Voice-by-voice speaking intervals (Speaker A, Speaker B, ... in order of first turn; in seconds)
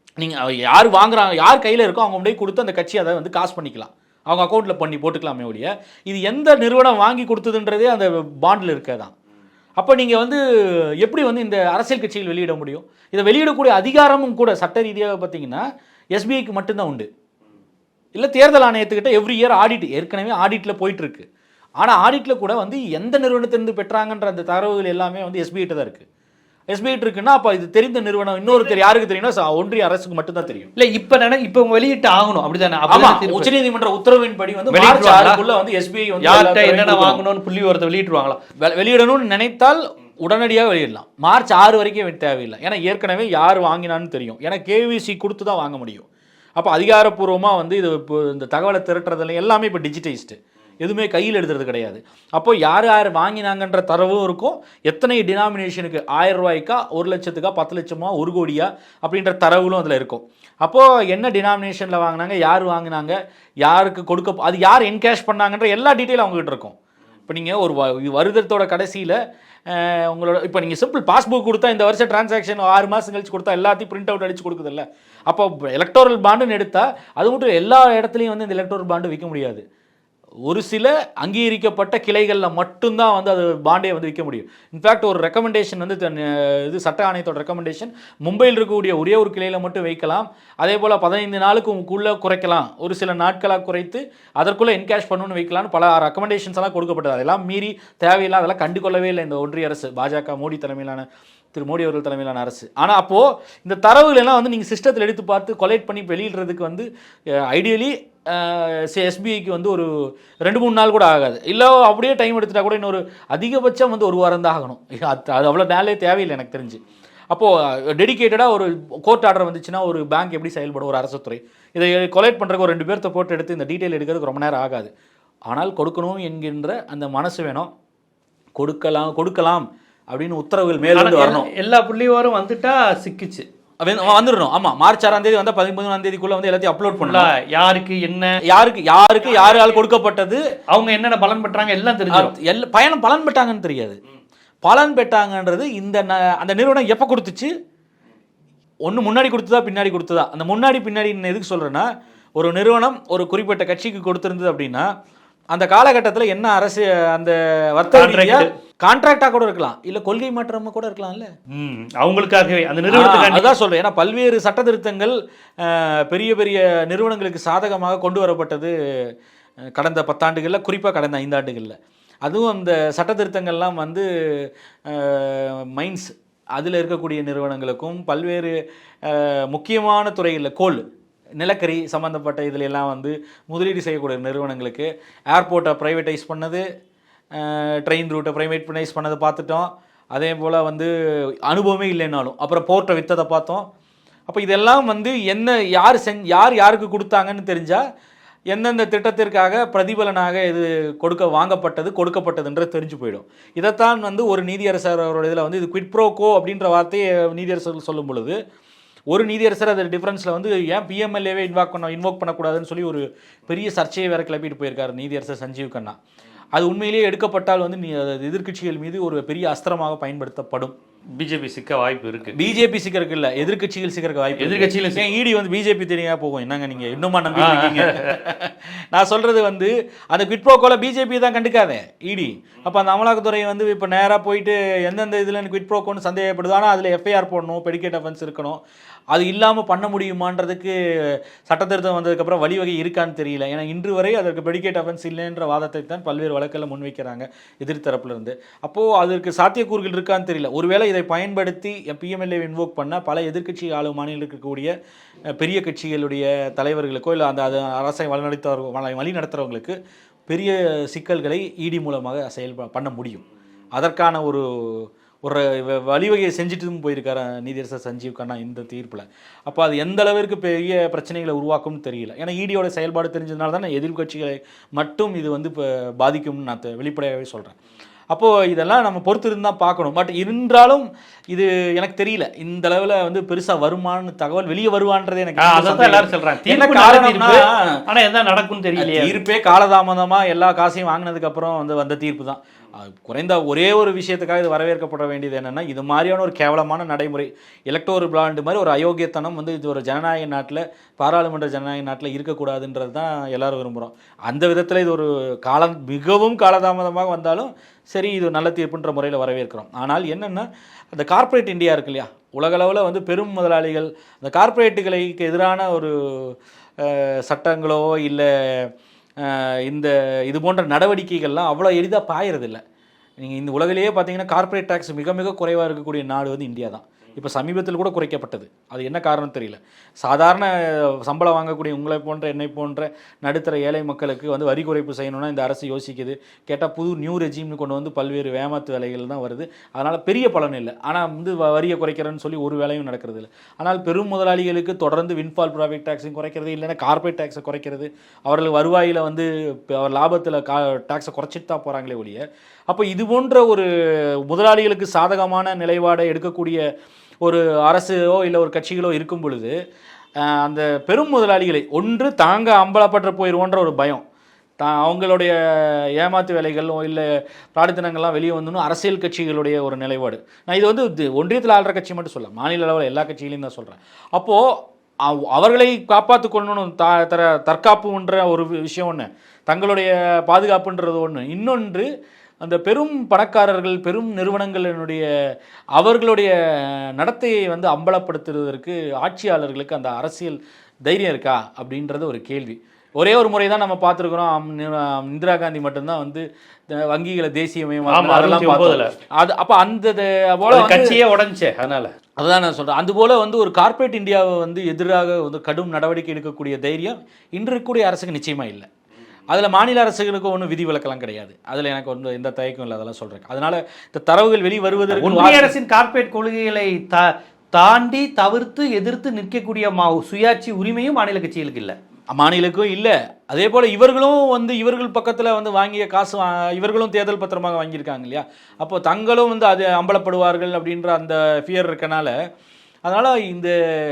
Speaker A: 0.2-9.1, 9.8-10.4, 11.0-15.6, 16.1-17.1, 18.1-21.3, 21.8-26.1, 26.7-30.7, 32.9-37.2, 38.5-66.7, 67.3-79.6, 80.5-106.9, 107.5-109.9, 110.4-116.8, 117.3-124.9, 125.5-127.7, 128.6-131.5, 133.8-137.3, 138.4-140.4, 142.1-144.0, 144.6-147.5, 148.8-154.9, 155.5-161.3, 162.9-168.7, 169.8-180.8, 181.4-186.6, 187.3-190.9, 191.4-193.7, 194.3-197.8, 198.5-208.4, 209.1-216.0, 216.6-220.7, 222.3-238.6, 239.1-254.7, 255.4-259.8, 260.3-263.2, 263.8-277.6, 278.1-287.8, 288.7-322.6, 323.2-353.7, 354.2-356.6, 357.2-359.5, 360.2-364.0, 364.6-374.4, 375.0-381.9, 382.4-385.1, 385.8-401.0, 402.2-408.7, 409.3-415.5, 422.1-432.1, 432.9-433.6
Speaker B: 30.8-33.5, 34.7-35.4, 36.2-38.4, 130.9-133.4, 137.0-138.4, 140.7-142.3, 157.9-158.5, 161.5-163.5, 221.2-222.3, 224.4-225.1, 227.3-228.2, 285.4-289.2, 397.9-398.9, 400.5-401.9, 414.9-421.8